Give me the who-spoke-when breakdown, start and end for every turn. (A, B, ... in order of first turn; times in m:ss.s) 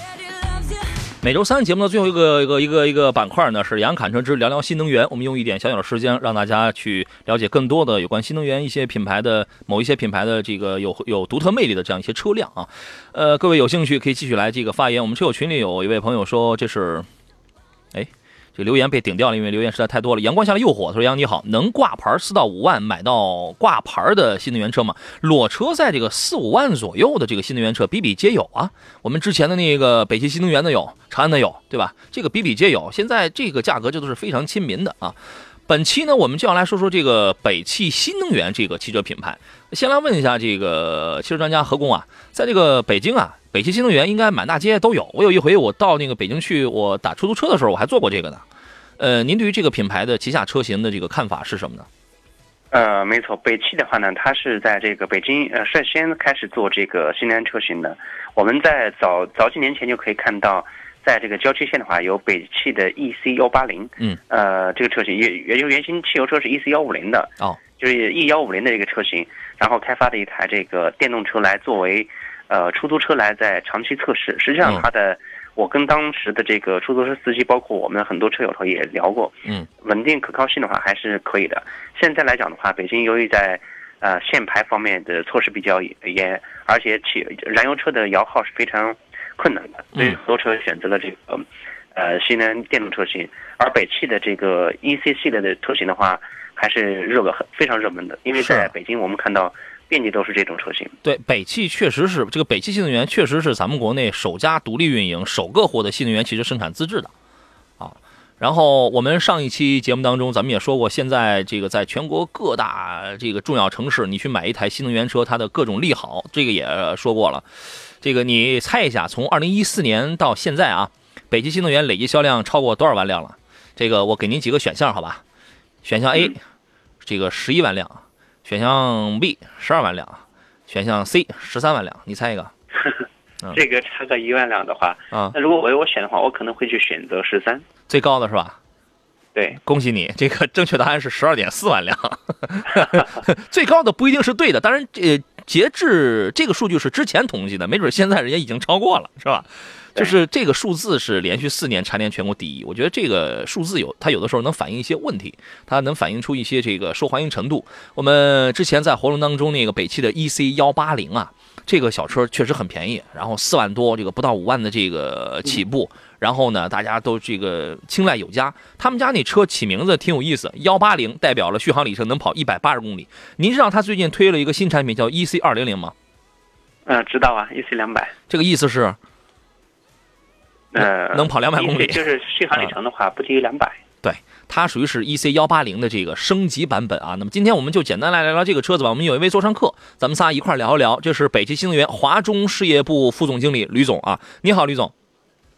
0:01.2-0:17.1 A
0:17.9-0:48.4 A
0:49.0-0:51.9 A
0:52.7-1:40.9 B
1:38.4-1:38.7 A
1:41.0-1:47.1 A
1:47.8-1:57.4 A
1:58.0-2:05.2 A
2:05.8-2:06.4 A
2:07.0-2:12.5 A
2:13.5-2:17.6 B
2:17.9-2:18.6 A
2:19.6-2:55.9 A
2:56.9-2:58.1 B
2:58.3-2:59.0 A
3:00.7-3:03.8 B
3:00.8-3:02.0 A
3:04.0-3:14.9 A